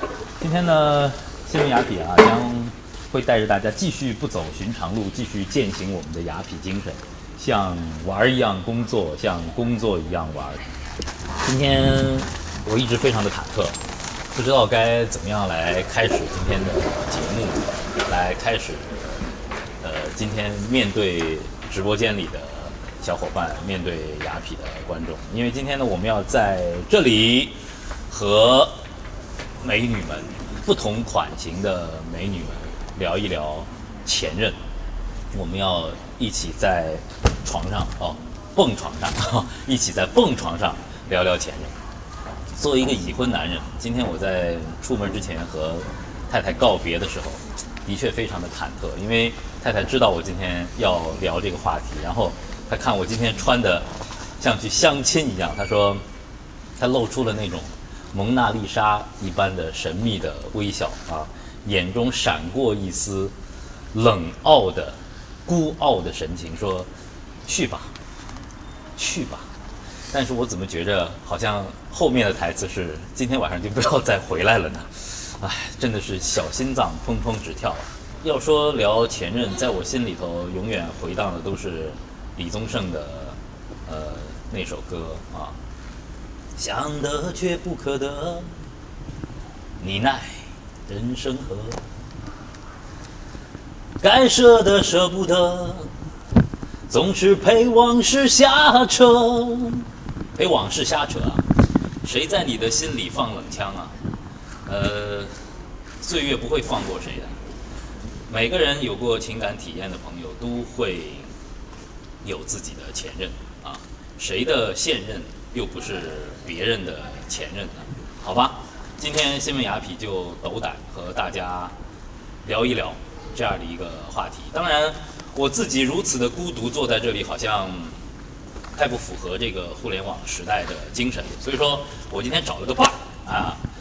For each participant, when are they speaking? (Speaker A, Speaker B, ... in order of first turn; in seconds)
Speaker A: 0.4-10.6, 11.4-13.8, 14.3-19.1, 19.8-28.8, 29.6-34.6, 35.3-41.8, 42.5-56.0, 56.8-63.3, 63.9-66.9, 67.5-67.9, 69.0-69.5, 70.1-85.6, 86.6-88.5, 89.8-91.8, 94.0-95.9, 96.9-101.5, 102.0-103.9, 104.7-105.4, 106.0-107.4, 108.3-111.3, 112.2-121.8, 122.4-128.0, 128.7-133.6